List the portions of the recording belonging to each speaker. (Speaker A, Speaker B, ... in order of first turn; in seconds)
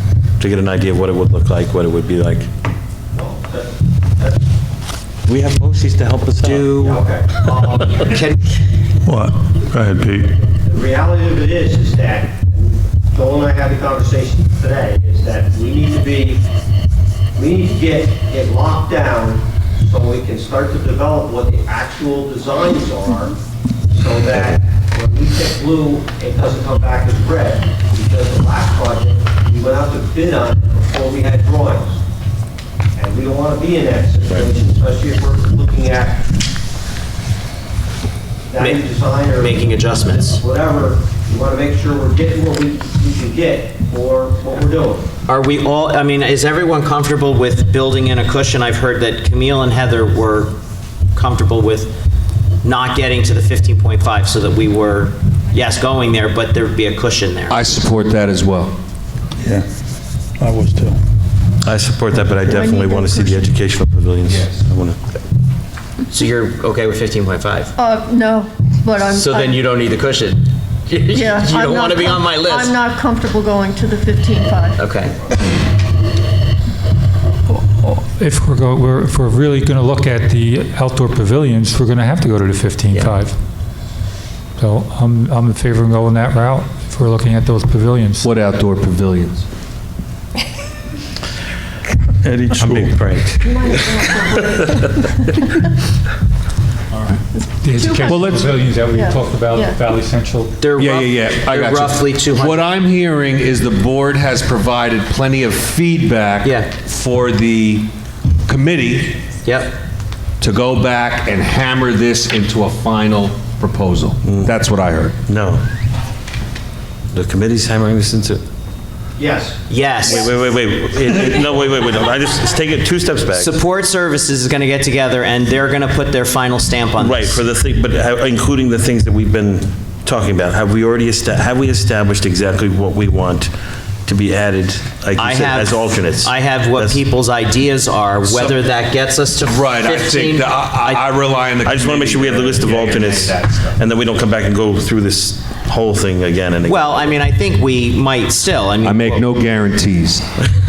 Speaker A: 0.4-2.5, 5.3-6.7, 61.6-65.0, 92.6-94.9, 114.2-114.5, 115.3-115.6, 117.1-118.4, 120.0-123.6, 127.0-133.5, 134.1-137.0, 141.6-147.2
Speaker B: 3.1-4.4, 6.8-8.2, 10.0-16.4, 17.4-23.4, 23.9-32.0, 33.0-36.3, 38.5-45.1, 119.2-119.6
Speaker C: 6.4-8.5, 38.6-40.4, 45.3-50.5, 51.1-51.9, 52.6-57.6, 66.1-67.7, 69.0-72.8, 74.8-75.2, 100.6-102.7, 106.4-106.7, 109.5-109.8, 119.7-120.3, 123.3-127.4, 135.2-141.0, 146.7-149.3
Speaker D: 9.1-10.3, 59.4-59.7, 60.4-61.0, 92.2-93.0
Speaker E: 57.5-58.8, 88.2-89.5, 98.1-98.5, 100.8-107.9, 108.5-109.2, 110.4-115.2, 138.3-138.6, 139.4-143.8, 148.8-150.3
Speaker F: 62.5-63.5, 67.8-69.6, 71.1-74.8, 93.4-95.5, 97.3-99.8
Speaker G: 77.5-83.4, 84.6-88.4, 97.6-100.7